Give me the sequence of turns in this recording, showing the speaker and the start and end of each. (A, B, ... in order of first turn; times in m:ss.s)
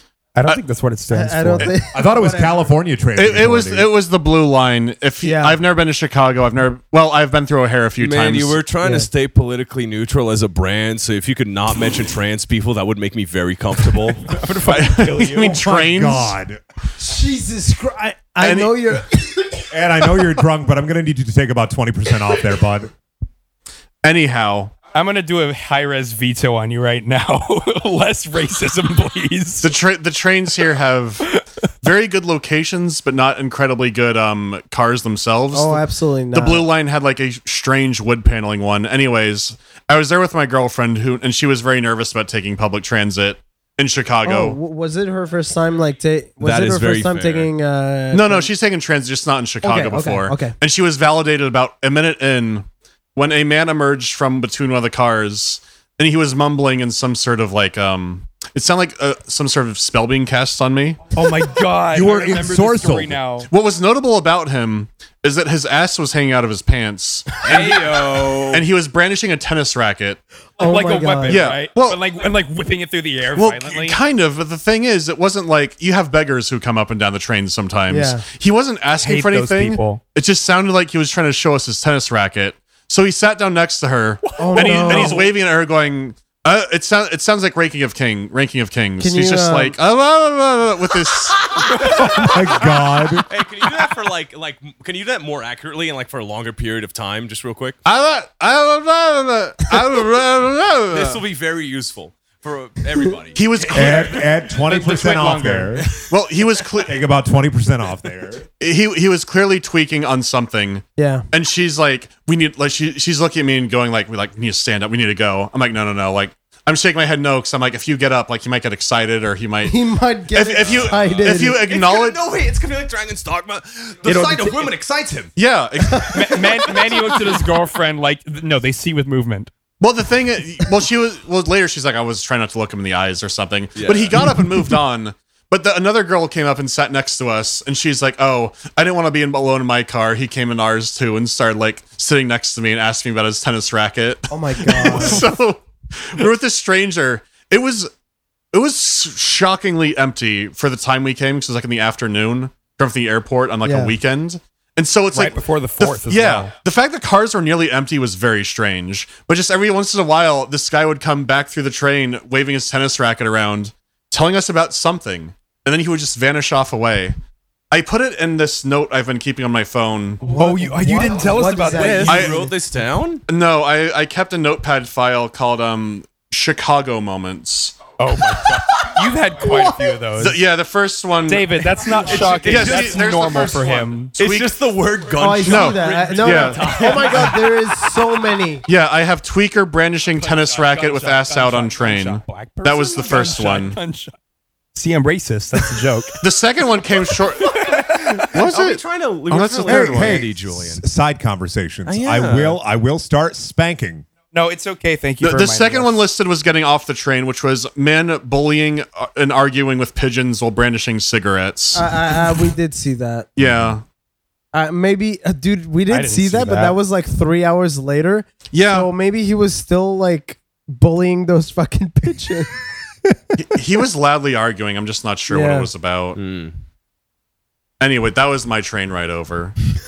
0:00.4-0:01.8 A
0:01.1-0:02.7 B
0:01.9-0:03.9 C
0:03.2-0:08.6 D
0:05.2-0:05.6 B
0:08.0-0:14.4 E
0:08.8-0:09.1 B
0:14.2-0:15.6 A
0:14.7-0:16.4 D
0:15.4-0:16.6 C
0:17.0-0:19.5 B
0:18.4-0:19.0 D
0:19.7-0:22.9 C
0:24.0-0:24.8 D
0:24.9-0:29.7 A
0:29.6-0:31.3 D
0:31.8-0:44.6 D
0:35.5-0:36.7 B
0:44.2-0:48.5 B
0:46.4-0:47.5 E
0:48.1-1:01.1 D
0:49.6-0:50.6 B
1:01.1-1:03.5 A
1:01.9-1:03.2 C
1:03.5-1:10.2 D
1:07.4-1:08.6 E
1:10.6-1:11.5 B
1:10.6-1:14.0 A
1:11.3-1:12.0 D
1:13.4-1:31.6 D
1:17.9-1:18.2 B
1:19.0-1:20.0 A
1:24.4-1:25.3 B
1:24.4-1:25.0 A
1:29.0-1:29.8 B
1:31.6-1:32.4 A
1:32.0-1:33.3 C
1:32.2-1:37.8 E
1:37.8-1:41.2 D
1:40.9-1:44.3 E
1:43.4-1:44.3 D
1:43.7-1:45.9 C
1:44.6-1:46.1 A
1:46.1-1:47.0 D
1:46.8-1:48.4 C
1:48.6-1:59.8 D
1:51.0-1:51.2 B
1:59.7-2:01.6 B
2:00.3-2:02.2 D
2:01.7-2:05.3 E
2:04.1-2:04.7 A
2:05.4-2:06.6 D
2:06.1-2:09.5 A
2:06.7-2:07.2 E
2:09.8-2:27.9 D
2:13.8-2:14.2 E
2:24.3-2:25.2 B
2:28.5-2:47.2 D
2:33.6-2:33.9 B
2:35.1-2:36.5 A
2:47.7-2:50.2 D
2:50.2-2:52.5 B
2:50.2-2:52.3 A
2:51.7-2:53.2 E
2:52.1-2:52.5 D
2:53.3-2:58.0 D
2:58.0-3:00.4 A
2:59.4-3:04.6 D
3:01.3-3:04.2 A
3:02.1-3:03.2 E
3:04.2-3:07.5 E
3:05.2-3:08.6 B
3:05.4-3:07.3 D
3:06.9-3:07.5 A
3:08.7-3:13.8 D
3:10.2-3:14.1 A
3:14.8-3:16.2 A
3:16.2-3:20.3 D
3:17.4-3:18.3 A
3:18.2-3:20.8 E
3:19.7-3:24.1 C
3:21.9-3:22.6 E
3:24.3-3:26.0 A
3:25.2-3:31.9 D
3:31.8-3:33.3 B
3:33.4-3:33.8 D
3:34.5-3:42.5 B
3:35.9-3:36.8 A
3:38.5-3:38.9 D
3:43.4-3:46.2 D
3:45.3-3:45.7 B
3:46.2-3:46.6 E
3:47.8-3:49.6 D